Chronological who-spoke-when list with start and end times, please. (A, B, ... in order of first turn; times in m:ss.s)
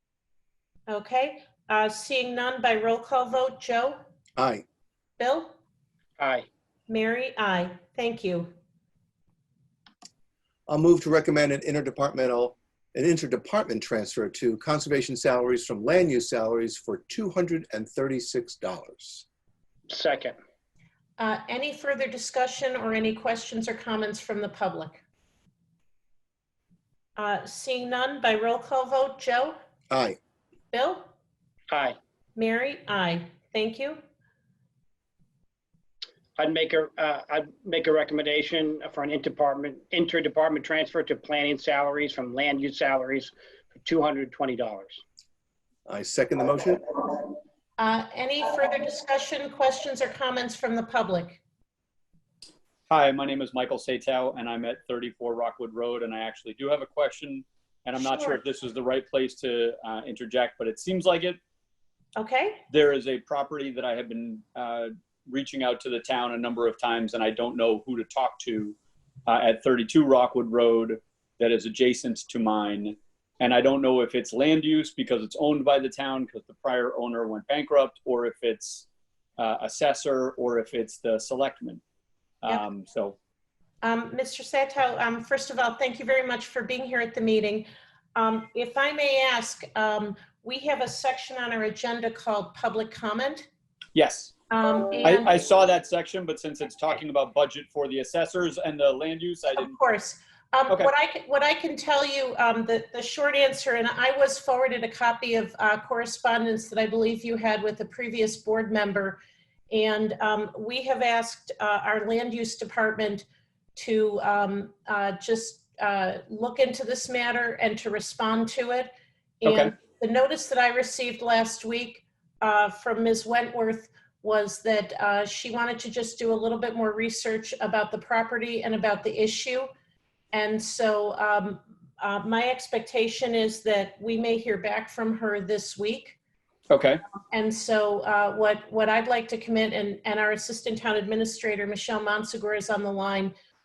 0:00.9-0:04.0 A
0:04.4-0:04.6 B
0:05.2-0:05.5 A
0:06.2-0:06.5 C
0:06.9-0:08.5 A
0:10.7-0:19.2 B
0:19.9-0:20.3 C
0:21.2-0:25.0 A
0:27.2-0:29.6 A
0:29.9-0:30.2 B
0:30.7-0:31.1 A
0:31.7-0:32.0 C
0:32.4-0:34.0 A
0:36.4-0:45.0 C
0:45.9-0:46.8 B
0:47.8-0:51.4 A
0:52.9-1:01.4 D
0:58.0-0:58.4 A
1:02.2-1:02.6 A
1:02.7-1:18.9 D
1:19.4-1:21.8 D
1:22.4-1:23.2 D
1:23.8-1:33.4 A
1:33.9-1:34.3 D
1:34.5-1:35.3 A
1:35.0-1:39.8 D
1:39.6-1:49.2 A
1:49.7-1:58.9 A
1:59.4-2:09.7 A
1:59.4-1:59.7 D
2:10.3-2:16.2 A
2:16.7-2:17.0 D
2:17.3-2:23.3 A